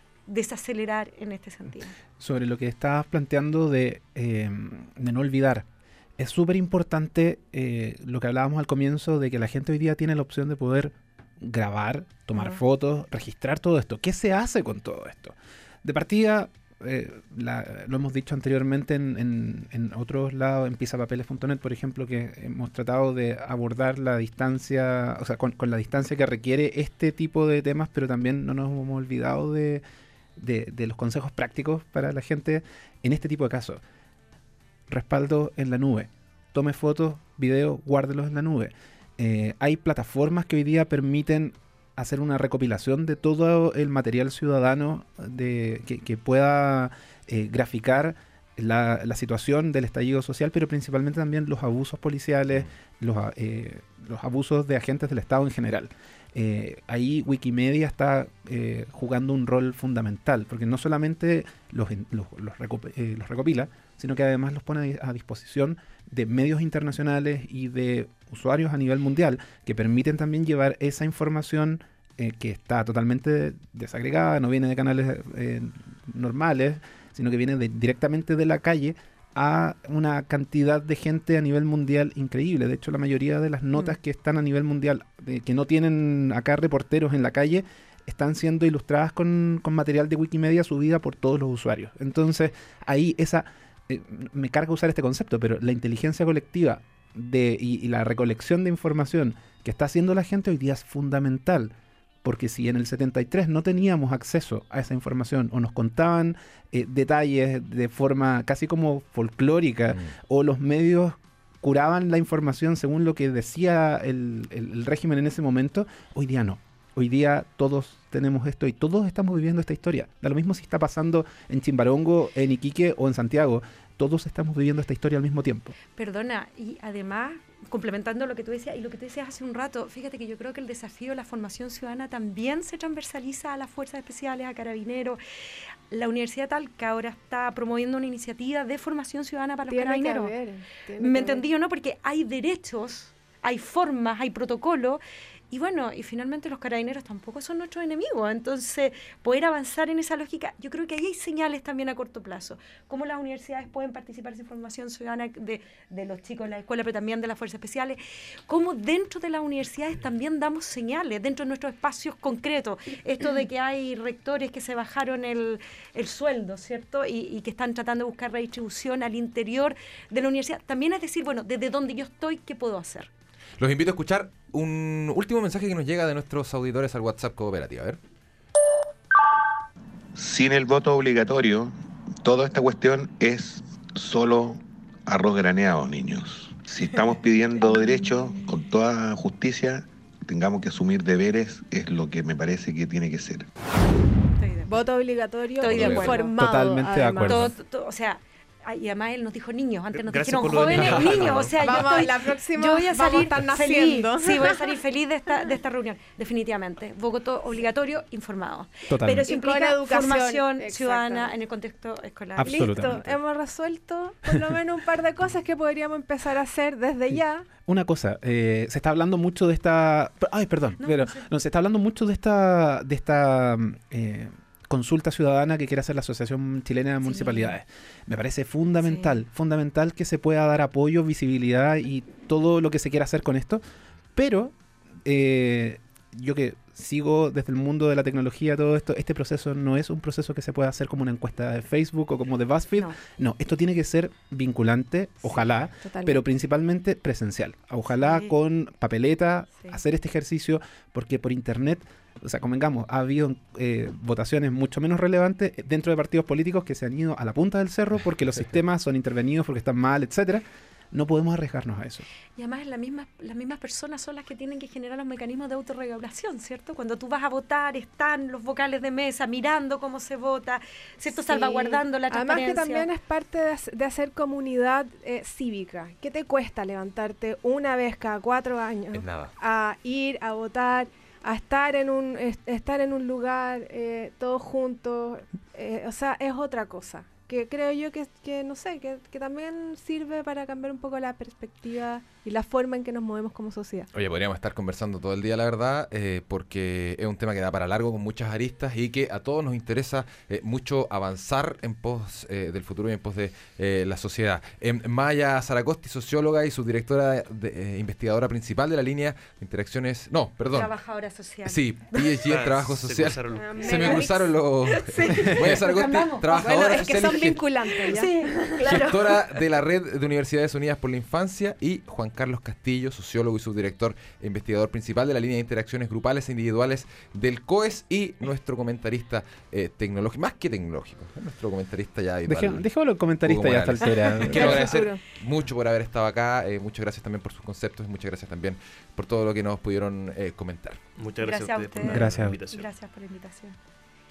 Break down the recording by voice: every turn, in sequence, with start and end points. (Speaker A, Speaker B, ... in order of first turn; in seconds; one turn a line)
Speaker A: 0.3-1.9
Speaker B: 2.2-5.7
Speaker B: 6.2-29.8
Speaker A: 12.3-12.6
Speaker B: 30.4-33.8
Speaker B: 34.9-125.7
Speaker A: 126.0-135.2
Speaker A: 135.9-140.3
Speaker C: 139.7-141.4
Speaker A: 141.0-173.1
Speaker D: 173.6-178.0
Speaker E: 180.1-193.5
Speaker A: 194.4-194.7
Speaker C: 194.7-197.4
Speaker A: 195.6-196.3
Speaker D: 195.7-196.2
Speaker B: 196.0-197.5
Speaker A: 197.2-212.7
Speaker F: 199.9-202.0
Speaker D: 200.9-201.2
Speaker C: 201.3-204.7
Speaker B: 208.9-209.3
Speaker C: 209.2-211.3
Speaker B: 212.3-213.2
Speaker C: 212.4-217.5
Speaker B: 217.1-233.6
Speaker A: 220.8-221.2
Speaker A: 227.0-227.6
Speaker A: 228.8-229.2
Speaker B: 234.1-262.0
Speaker C: 245.8-246.2
Speaker A: 247.9-248.3
Speaker A: 262.4-272.9
Speaker C: 271.1-293.9
Speaker F: 278.9-279.3
Speaker D: 293.9-310.7
Speaker A: 310.5-312.2
Speaker D: 311.4-317.4
Speaker F: 312.2-314.0
Speaker C: 313.4-315.6
Speaker A: 313.6-314.1
Speaker A: 314.6-316.8
Speaker C: 316.3-319.0
Speaker A: 317.9-319.1
Speaker D: 318.6-332.7
Speaker B: 332.2-334.7
Speaker D: 333.2-340.8
Speaker C: 334.2-335.0
Speaker F: 341.0-342.7
Speaker A: 341.2-343.6
Speaker B: 341.8-342.4